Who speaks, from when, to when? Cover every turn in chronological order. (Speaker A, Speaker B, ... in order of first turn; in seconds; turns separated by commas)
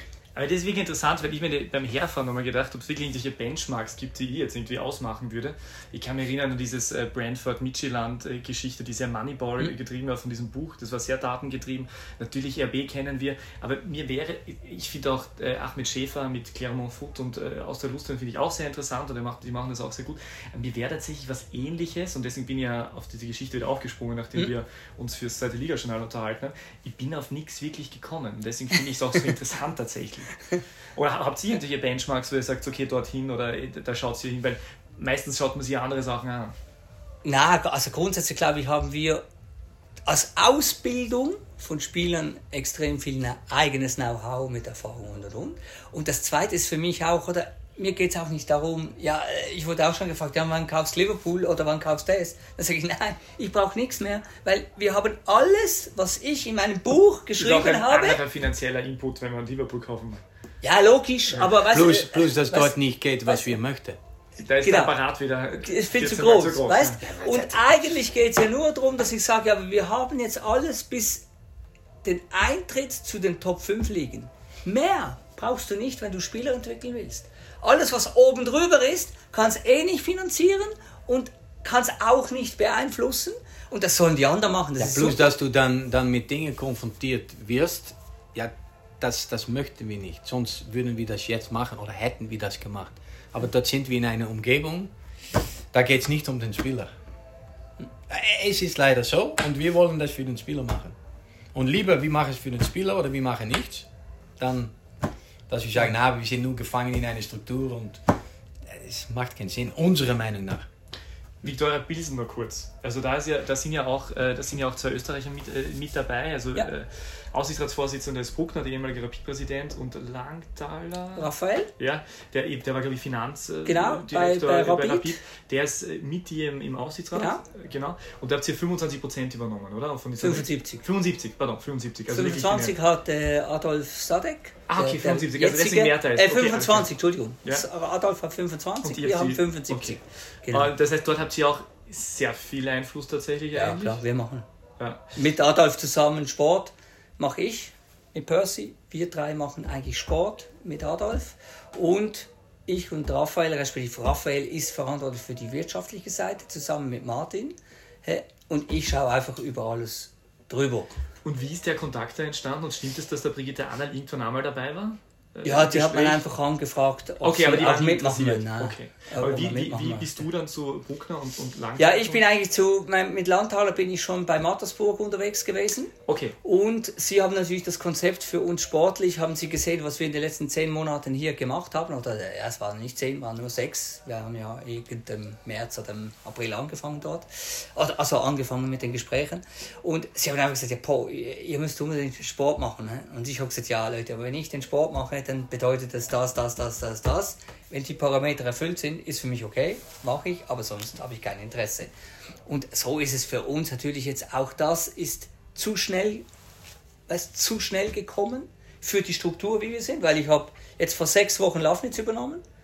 Speaker A: 0.3-30.4, Speaker A: 30.9-36.5, Speaker B: 37.2-39.2, Speaker B: 40.0-58.2, Speaker A: 57.4-60.2, Speaker B: 60.6-62.7, Speaker C: 61.7-64.0, Speaker B: 63.3-63.6, Speaker A: 64.4-67.6, Speaker B: 64.6-64.9, Speaker B: 65.6-71.2, Speaker B: 72.0-85.2, Speaker C: 84.8-94.9, Speaker C: 95.7-96.9, Speaker C: 98.1-101.0, Speaker C: 101.5-103.9, Speaker C: 104.4-104.8, Speaker C: 105.5-108.0, Speaker C: 108.7-110.7, Speaker A: 111.4-132.7, Speaker B: 121.2-121.7, Speaker B: 123.7-125.2, Speaker B: 127.2-127.4, Speaker B: 130.2-130.8, Speaker B: 132.1-140.7, Speaker A: 134.7-136.9, Speaker A: 138.8-144.0, Speaker B: 143.5-144.4, Speaker A: 144.8-145.1, Speaker B: 145.2-161.0, Speaker A: 161.2-166.2, Speaker B: 165.4-170.3, Speaker A: 167.2-172.2, Speaker B: 171.8-175.9, Speaker A: 176.1-176.4, Speaker B: 176.4-201.9, Speaker B: 202.4-206.2, Speaker B: 207.1-212.4